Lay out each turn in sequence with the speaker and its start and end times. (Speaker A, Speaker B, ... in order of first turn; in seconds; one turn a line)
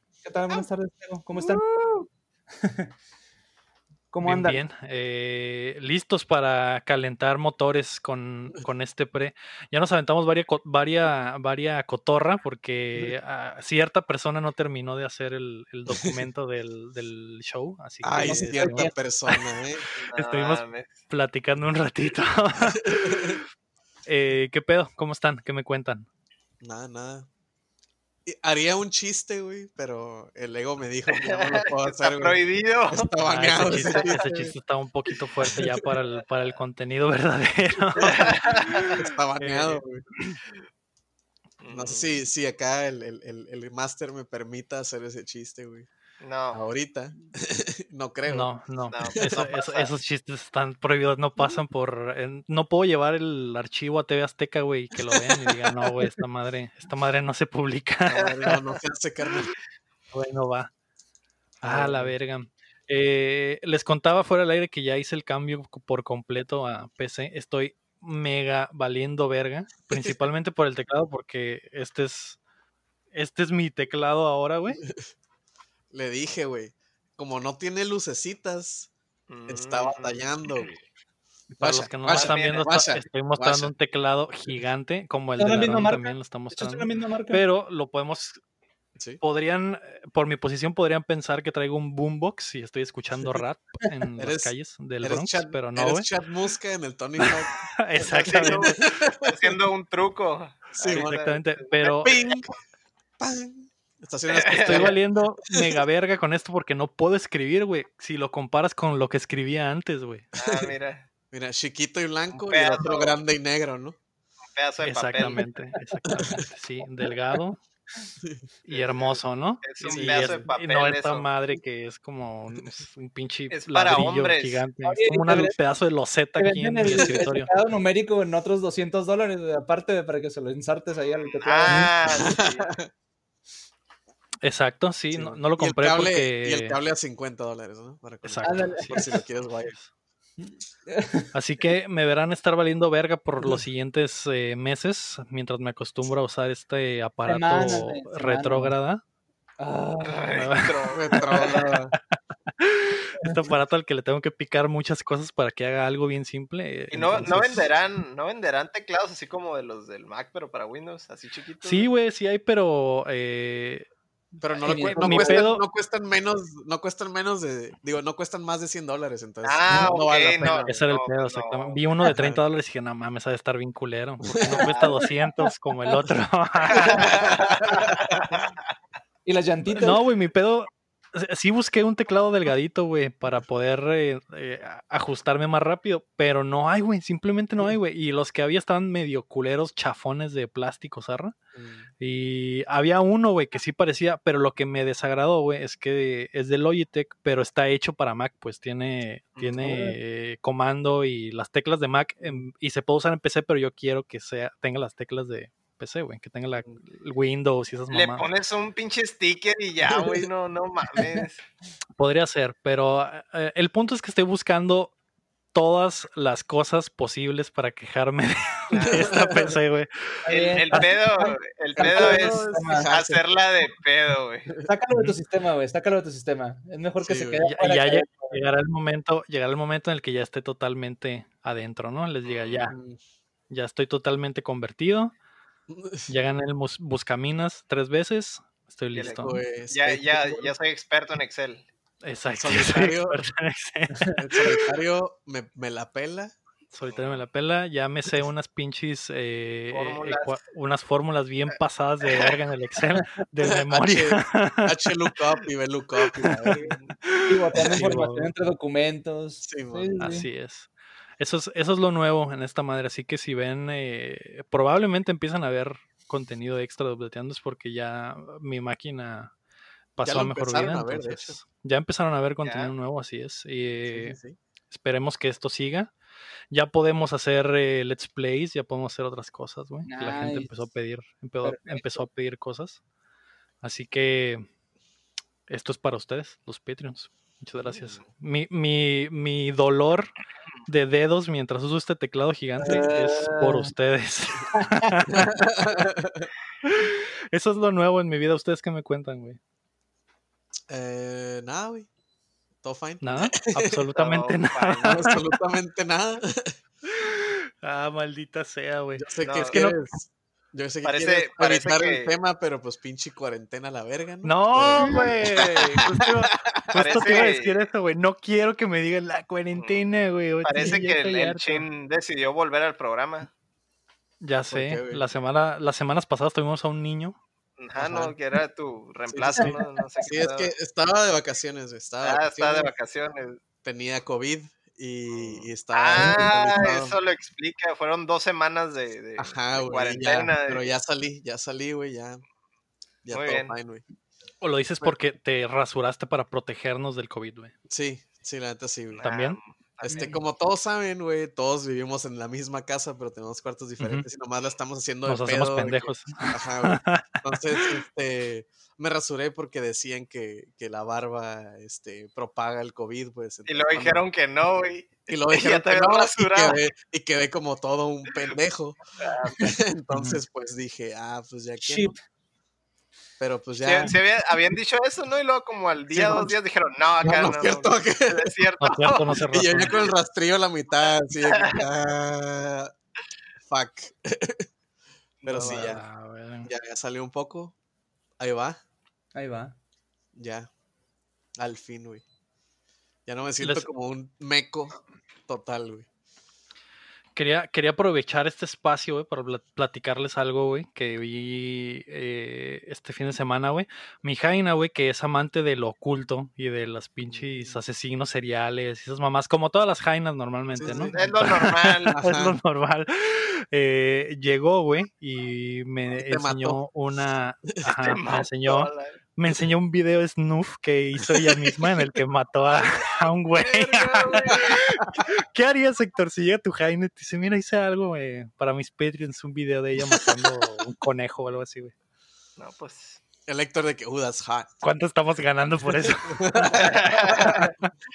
Speaker A: 0.2-1.6
Speaker B: 1.3-2.1
Speaker A: 2.6-2.9
Speaker A: 4.1-4.6
Speaker C: 4.2-19.4
Speaker D: 18.0-19.9
Speaker A: 18.2-18.9
Speaker B: 20.0-21.0
Speaker C: 20.2-23.4
Speaker D: 22.8-23.4
Speaker C: 24.1-26.1
Speaker D: 26.6-27.3
Speaker D: 28.3-34.5
Speaker B: 31.1-33.1
Speaker C: 33.2-40.4
Speaker B: 33.7-34.0
Speaker D: 35.4-35.8
Speaker D: 38.0-38.3
Speaker B: 38.0-38.9
Speaker D: 38.9-40.0
Speaker B: 41.6-42.1
Speaker D: 41.7-45.9
Speaker B: 46.2-46.6
Speaker D: 46.5-48.5
Speaker C: 48.3-58.5
Speaker B: 48.9-49.9
Speaker D: 58.1-59.5
Speaker B: 58.2-58.6
Speaker C: 60.1-60.7
Speaker D: 61.6-62.1
Speaker C: 61.6-72.4
Speaker C: 73.1-74.8
Speaker D: 75.9-78.9
Speaker B: 79.3-80.2
Speaker D: 79.5-80.7
Speaker C: 81.6-88.4
Speaker D: 81.6-83.7
Speaker B: 82.1-82.7
Speaker A: 85.4-87.4
Speaker C: 89.2-96.1
Speaker D: 94.2-99.4
Speaker C: 97.2-98.9
Speaker B: 98.0-102.5
Speaker D: 100.8-101.2
Speaker C: 100.9-102.3
Speaker D: 102.0-102.5
Speaker D: 103.2-105.0
Speaker B: 104.3-105.0
Speaker C: 104.6-110.3
Speaker B: 110.3-111.0
Speaker D: 110.4-110.7
Speaker D: 111.3-114.0
Speaker B: 112.3-113.2
Speaker B: 114.5-115.5
Speaker C: 114.8-117.6
Speaker A: 115.5-116.4
Speaker D: 118.2-118.5
Speaker C: 118.7-127.5
Speaker B: 118.7-121.3
Speaker D: 119.9-120.5
Speaker B: 123.5-124.6
Speaker A: 124.8-125.6
Speaker A: 126.4-131.9
Speaker D: 126.9-127.2
Speaker B: 131.0-132.7
Speaker D: 132.1-132.9
Speaker C: 134.4-136.8
Speaker D: 135.1-139.8
Speaker C: 138.2-139.9
Speaker A: 138.4-139.2
Speaker A: 140.4-141.3
Speaker C: 141.3-149.0
Speaker A: 147.3-148.8
Speaker A: 149.6-150.3
Speaker B: 150.0-151.8
Speaker C: 150.3-151.7
Speaker D: 150.9-152.0
Speaker C: 152.5-157.7
Speaker B: 156.9-161.9
Speaker C: 161.6-163.9
Speaker D: 164.4-170.8
Speaker A: 164.6-165.4
Speaker C: 164.6-165.6
Speaker B: 169.4-171.8
Speaker C: 170.4-177.1
Speaker D: 172.1-172.4
Speaker D: 174.3-174.7
Speaker B: 174.5-174.9
Speaker A: 174.8-175.5
Speaker B: 176.7-178.5
Speaker D: 176.9-178.3
Speaker A: 179.2-180.0
Speaker C: 179.8-191.3
Speaker D: 191.6-191.9
Speaker C: 192.0-208.3
Speaker B: 199.4-199.8
Speaker B: 207.9-211.4
Speaker C: 212.0-214.9
Speaker C: 215.5-220.9
Speaker B: 218.7-219.2
Speaker D: 219.0-219.6
Speaker A: 220.3-222.9
Speaker B: 220.3-224.5
Speaker D: 221.8-223.2
Speaker A: 224.6-228.4
Speaker D: 227.0-227.5
Speaker C: 227.4-232.8
Speaker B: 232.2-232.7
Speaker D: 232.7-233.0
Speaker C: 233.5-235.1
Speaker D: 235.7-236.1
Speaker C: 236.1-239.4
Speaker B: 238.9-241.7
Speaker D: 239.1-240.5
Speaker C: 242.0-244.7
Speaker D: 242.3-243.2
Speaker D: 244.1-246.3
Speaker C: 246.7-255.2
Speaker B: 246.8-247.2
Speaker B: 249.7-250.4
Speaker B: 252.1-252.4
Speaker D: 253.7-256.8
Speaker C: 256.2-256.6
Speaker B: 256.6-256.9
Speaker C: 257.1-258.3
Speaker A: 257.3-260.3
Speaker D: 259.4-259.9
Speaker C: 260.0-269.3
Speaker C: 270.0-274.2
Speaker D: 270.0-271.4
Speaker B: 272.4-272.7
Speaker D: 273.9-274.4
Speaker C: 274.7-275.9
Speaker C: 276.5-282.8
Speaker A: 279.9-280.5
Speaker A: 281.4-282.1
Speaker C: 283.6-284.5
Speaker C: 285.5-290.1
Speaker C: 290.7-295.3
Speaker A: 292.6-293.7
Speaker B: 292.7-293.3
Speaker A: 294.5-295.0
Speaker D: 295.1-296.3
Speaker C: 296.6-299.4
Speaker D: 300.7-301.9
Speaker D: 302.6-303.8
Speaker C: 303.0-305.2
Speaker B: 304.0-305.1
Speaker D: 304.8-306.5
Speaker C: 306.9-309.8
Speaker D: 309.0-317.3
Speaker B: 309.2-309.6
Speaker B: 310.8-312.1
Speaker C: 314.2-321.7
Speaker B: 314.8-315.1
Speaker B: 316.7-317.6
Speaker B: 319.6-319.9
Speaker B: 320.4-323.3
Speaker C: 324.2-327.2
Speaker D: 324.5-325.0
Speaker B: 327.6-330.5
Speaker D: 327.8-328.1
Speaker D: 329.1-332.7
Speaker A: 329.4-329.8
Speaker B: 332.0-333.4
Speaker D: 333.6-337.0
Speaker B: 335.1-340.7
Speaker D: 339.2-342.2
Speaker D: 343.1-343.8
Speaker B: 343.1-343.5
Speaker C: 344.4-347.5
Speaker D: 347.7-349.0
Speaker B: 348.9-350.1
Speaker C: 349.0-349.4
Speaker D: 349.8-364.0
Speaker C: 349.9-350.2
Speaker C: 353.8-354.1
Speaker C: 355.1-357.7
Speaker B: 363.5-366.6
Speaker D: 365.1-368.8
Speaker B: 369.0-369.5
Speaker D: 369.3-371.9
Speaker C: 369.9-370.2
Speaker A: 371.6-372.0
Speaker D: 373.2-374.0
Speaker B: 373.6-379.9
Speaker D: 375.9-376.4
Speaker D: 377.0-378.3
Speaker C: 378.6-379.8
Speaker D: 379.2-382.7
Speaker B: 380.8-381.6
Speaker D: 383.5-384.5
Speaker B: 385.2-385.8
Speaker D: 385.2-385.8
Speaker C: 385.4-386.5
Speaker D: 386.4-387.6
Speaker D: 388.2-388.6
Speaker A: 389.1-389.6
Speaker D: 390.1-390.5
Speaker D: 391.4-392.0
Speaker D: 393.1-394.7
Speaker C: 393.4-393.7
Speaker D: 395.3-395.9
Speaker C: 397.1-431.7
Speaker D: 407.1-407.6
Speaker D: 410.5-411.0
Speaker B: 410.6-412.0
Speaker D: 411.9-412.4
Speaker D: 415.9-416.6
Speaker B: 417.8-419.0
Speaker D: 421.0-421.8
Speaker B: 422.6-424.6
Speaker D: 424.1-425.0
Speaker B: 432.4-433.0
Speaker D: 433.3-434.6
Speaker C: 434.6-436.6
Speaker D: 435.8-437.5
Speaker B: 436.5-437.5
Speaker C: 437.3-437.7